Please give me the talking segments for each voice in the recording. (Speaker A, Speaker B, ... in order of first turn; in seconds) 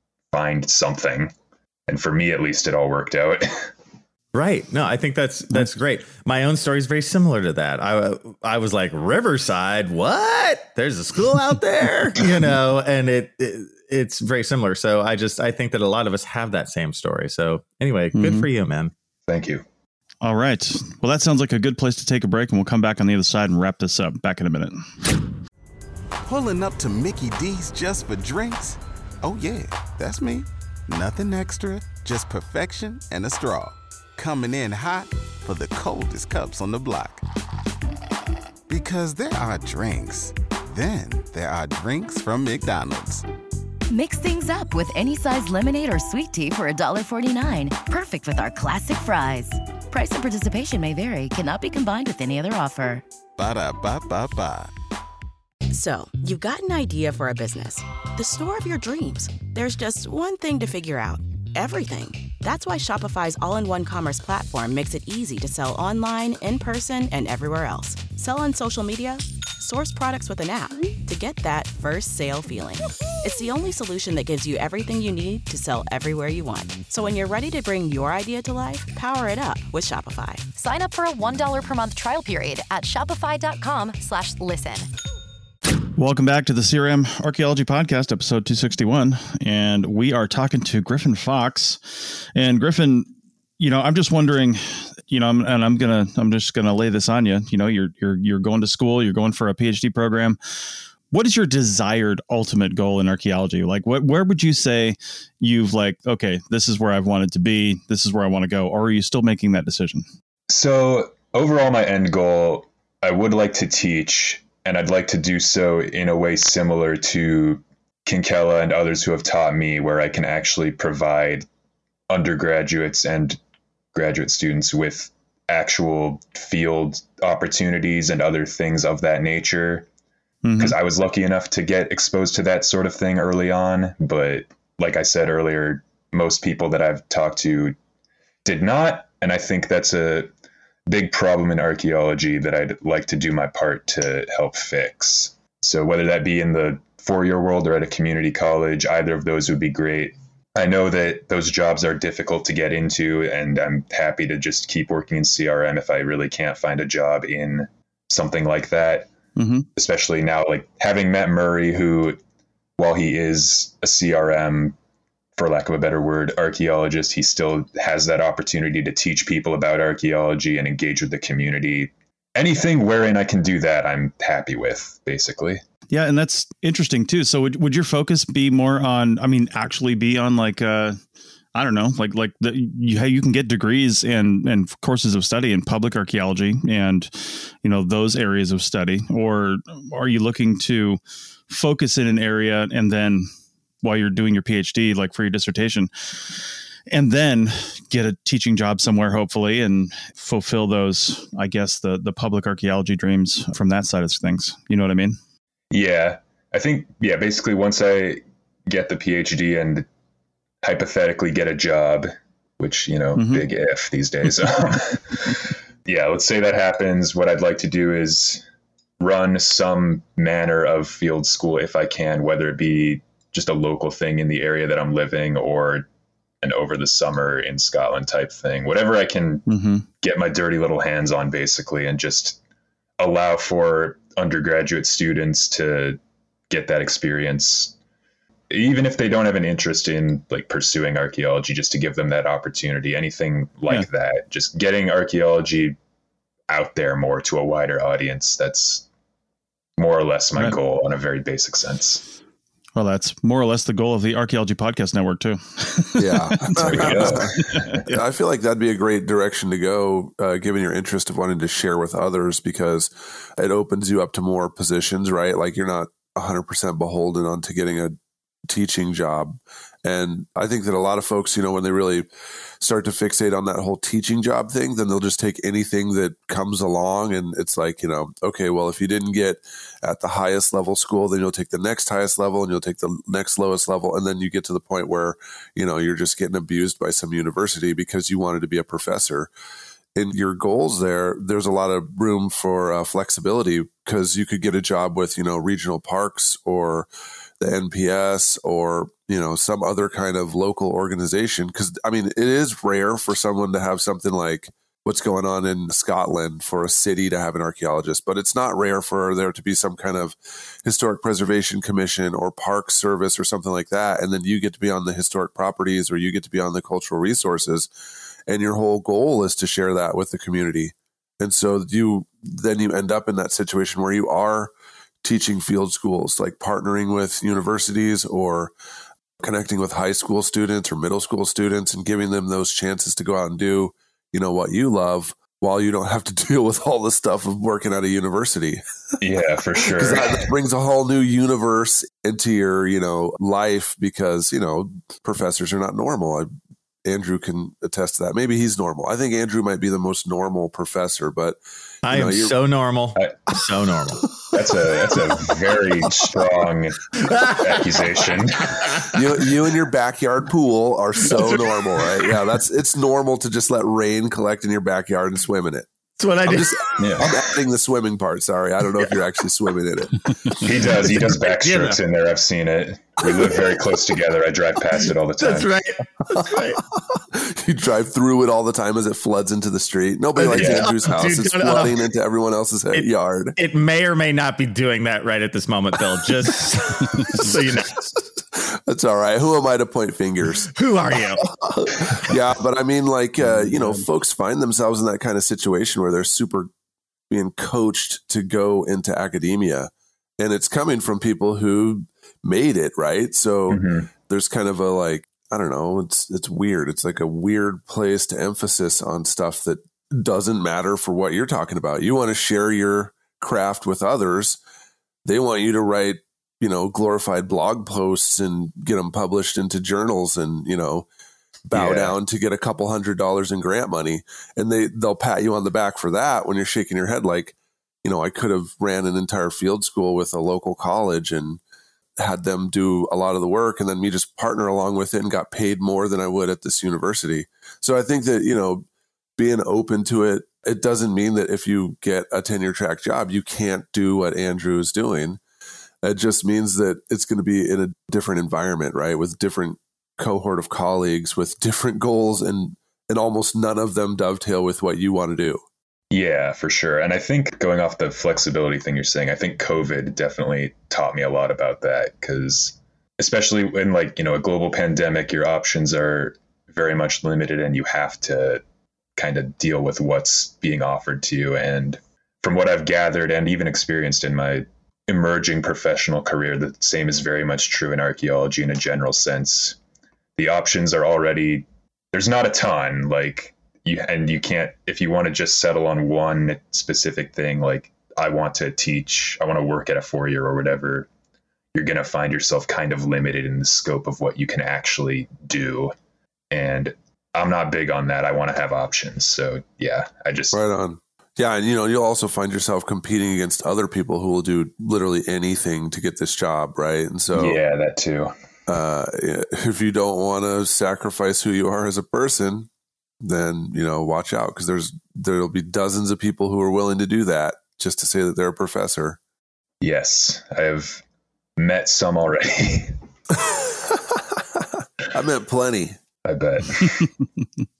Speaker A: 0.3-1.3, 1.9-3.7, 19.3-19.6, 110.5-121.5, 122.1-123.4, 123.9-129.9, 130.6-137.8, 138.4-140.3, 140.9-159.1, 159.8-162.2, 162.8-164.8, 165.3-175.6, 205.7-209.8, 210.6-218.4, 219.0-225.8, 226.4-229.5, 230.0-232.4, 233.0-236.0, 236.5-237.7, 238.5-245.8, 246.5-248.8, 249.8-252.0, 256.6-257.6, 339.0-340.3, 354.3-358.8, 366.8-367.2, 370.4-375.5, 380.3-380.7, 403.5-403.9, 421.5-421.9, 455.9-468.4, 468.9-479.6, 480.1-490.9, 491.5-495.7, 496.3-500.4, 507.1-508.1, 519.6-520.8, 521.4-522.7, 526.0-526.9
Speaker B: 4.3-18.9, 351.8-354.0, 356.9-359.1, 361.0-362.2, 366.0-367.2, 370.8-371.8, 373.1-373.4, 375.2-376.6, 380.1-381.8, 382.7-387.9, 390.5-392.1
Speaker C: 18.1-18.5, 20.2-24.8, 86.0-100.4, 101.1-110.0, 130.4-130.7, 159.4-159.7, 175.9-181.0, 181.5-193.3, 193.8-196.3, 196.9-205.2, 213.2-213.4, 229.5-229.8, 252.8-258.0, 386.9-387.3
Speaker D: 26.2-37.2, 38.7-43.2, 53.4-54.7
Speaker E: 43.9-53.0
Speaker F: 55.7-80.4
Speaker G: 80.5-84.9
Speaker H: 256.0-268.0, 268.5-272.1, 272.6-289.3, 289.9-296.9, 297.4-317.7, 318.3-324.5, 325.0-328.5, 329.2-338.6, 339.7-346.3, 346.9-352.3, 358.9-365.7, 366.2-370.4, 377.0-383.3, 388.2-390.5, 391.8-396.5, 397.1-414.4, 415.0-420.9, 421.5-431.4, 432.0-438.6, 439.2-445.2, 445.8-455.4, 500.3-507.4, 508.5-512.5, 513.0-519.0, 523.1-524.2, 524.9-525.8